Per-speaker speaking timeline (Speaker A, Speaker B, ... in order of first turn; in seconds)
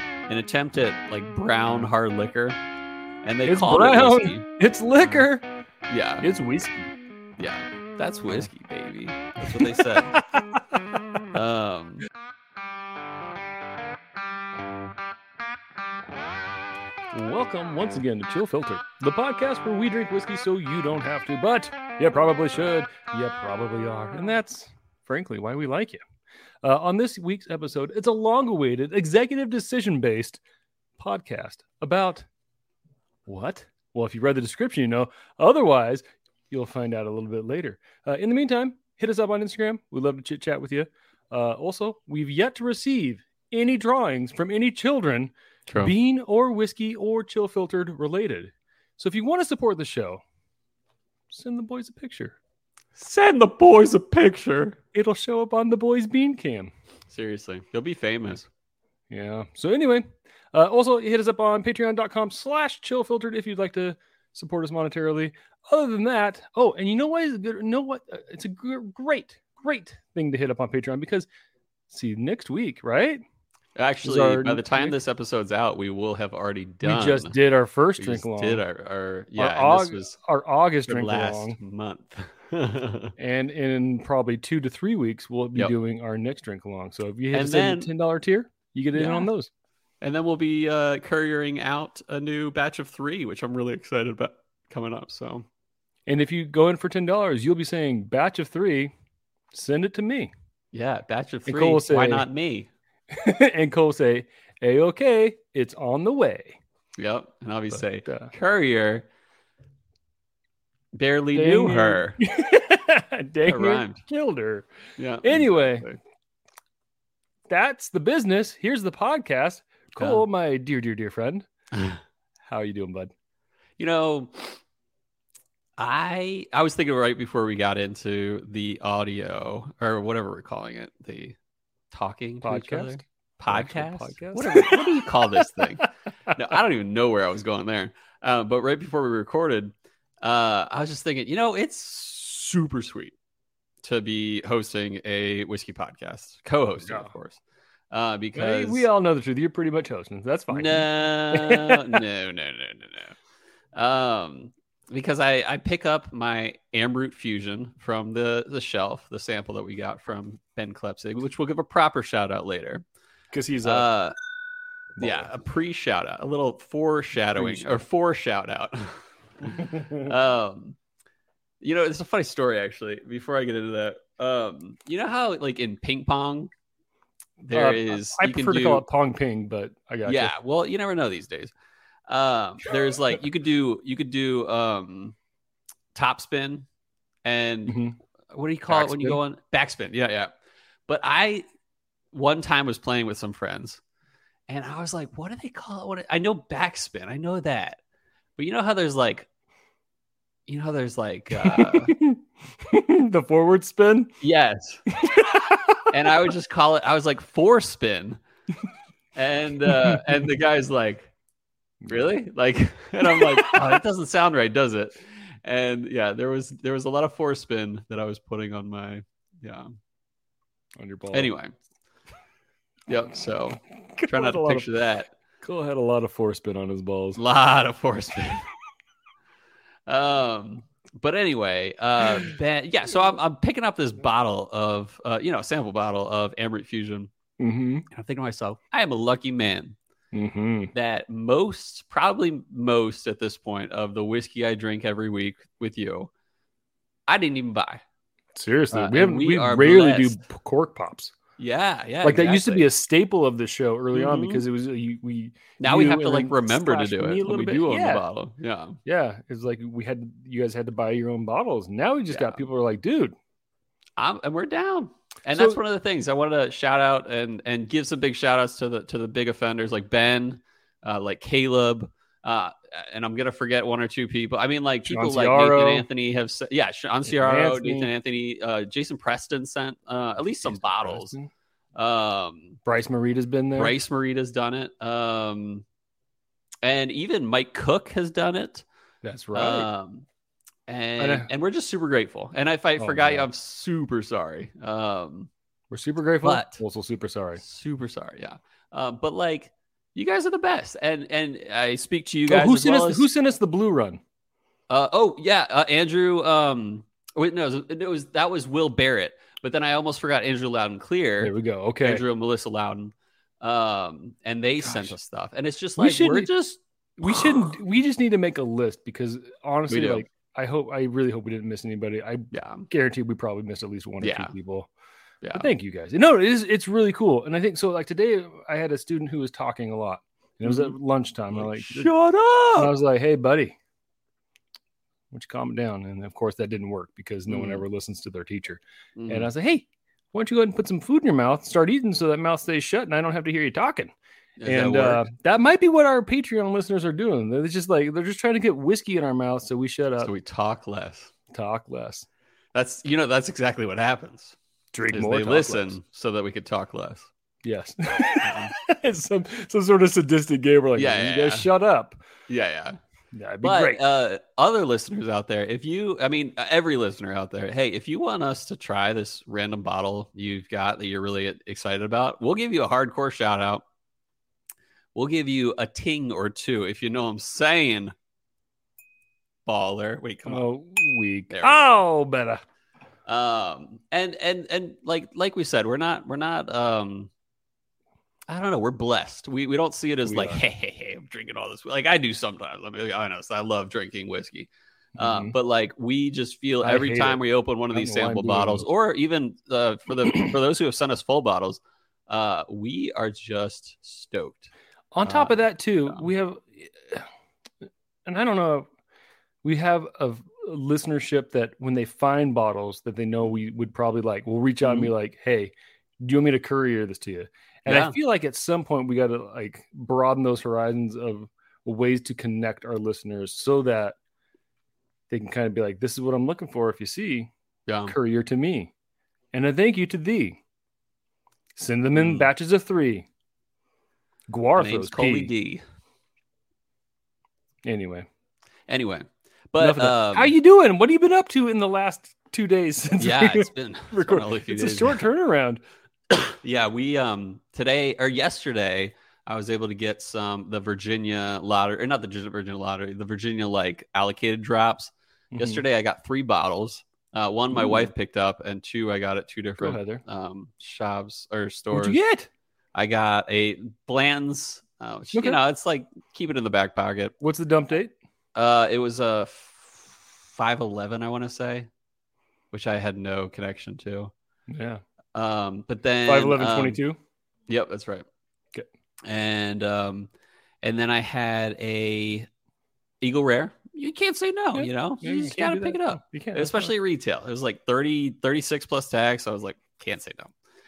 Speaker A: 0.3-2.6, 3.2-4.4, 5.9-6.3, 7.4-10.2, 11.3-12.0, 45.7-45.9, 53.0-54.8, 57.1-58.5, 73.8-77.3, 78.0-80.1, 80.8-83.1, 87.3-87.9, 89.0-89.3, 90.0-95.5, 100.7-102.7, 107.0-109.1, 110.9-112.2, 113.5-114.0, 115.0-116.0, 120.0-120.2, 121.7-122.0, 123.8-124.6, 125.8-131.4, 131.9-143.2, 143.8-147.4, 147.9-148.8, 150.5-153.2, 153.7-162.8, 163.6-164.2, 165.0-170.8, 171.6-176.5, 177.4-178.8, 180.0-181.5, 182.1-185.2, 185.9-186.7, 187.2-187.8, 188.3-190.3, 190.9-191.4, 192.1-193.8, 194.5-197.8, 198.4-199.3, 200.5-201.9, 204.2-204.8, 205.9-208.2, 209.2-211.1, 211.9-219.7, 221.1-221.5, 222.9-225.2, 227.2-228.4, 229.9-237.1, 237.9-239.8, 240.7-246.1, 247.1-247.8, 248.7-250.2, 251.4-252.7, 253.9-254.4, 255.6-258.8, 262.1-262.4, 264.0-281.1, 281.8-282.6, 283.6-285.6, 286.6-288.6, 289.3-290.1, 290.7-295.3, 296.2-296.6, 297.4-303.1, 304.7-316.3, 317.1-317.5, 319.7-320.1, 322.3-322.7, 324.0-324.3, 325.2-325.5, 330.4-330.7, 331.3-332.8, 337.3-337.6, 339.0-339.3, 344.4-345.0, 350.0-351.1, 352.5-354.4, 354.9-357.1, 358.2-358.5, 360.8-361.5, 362.3-362.8, 363.4-373.6, 374.9-377.9, 379.5-380.5, 381.3-381.7, 383.1-387.1, 388.3-404.5, 405.0-405.4, 414.6-414.9, 417.7-417.9, 427.7-428.0, 432.0-432.3, 434.6-435.6, 438.7-440.4, 443.0-445.1, 446.1-462.0, 462.8-467.1, 468.4-471.7, 472.5-474.1, 475.1-476.8, 477.5-478.1, 479.1-480.1, 480.6-482.3, 483.0-490.3
Speaker B: 3.5-5.5, 6.2-6.9, 9.7-10.6, 17.1-26.0, 26.6-30.4, 31.0-32.2, 33.2-50.2, 51.3-52.4, 54.9-56.7, 59.1-71.3, 71.9-73.2, 74.0-75.0, 76.8-78.6, 79.4-81.6, 83.2-89.5, 96.1-98.9, 99.5-100.3, 101.5-102.2, 103.1-106.6, 107.7-108.3, 111.3-114.7, 115.2-115.9, 117.5-121.5, 122.4-123.1, 132.4-135.8, 146.8-147.1, 148.3-152.0, 163.3-163.9, 165.0-165.3, 167.3-167.8, 169.6-170.1, 177.5-180.3, 187.7-187.9, 188.7-189.2, 201.4-204.1, 204.9-205.9, 209.6-210.0, 211.8-212.1, 213.0-213.8, 220.8-221.3, 223.9-224.7, 225.4-227.2, 237.4-237.8, 240.1-240.7, 248.3-251.2, 252.0-258.1, 258.9-263.2, 265.3-265.6, 274.9-275.9, 277.1-277.9, 280.2-281.3, 282.6-283.8, 289.0-289.7, 291.0-291.3, 292.8-293.3, 295.7-297.4, 302.3-304.0, 311.2-312.0, 314.6-315.0, 315.8-324.7, 325.3-331.9, 332.6-333.6, 335.1-343.9, 344.4-350.1, 351.3-352.1, 354.7-355.7, 357.4-362.0, 363.1-363.8, 380.3-382.4, 390.1-390.4, 395.0-395.4, 396.6-398.7, 404.9-407.1, 408.1-408.7, 409.4-424.0, 425.1-427.3, 427.9-428.7, 429.3-430.4, 431.6-433.1, 434.3-435.3, 437.6-438.1, 439.6-445.6, 455.3-455.6, 457.5-457.9, 459.6-460.0, 461.7-462.3, 465.1-465.4, 467.2-467.9, 474.5-474.8, 476.1-477.0, 484.5-486.7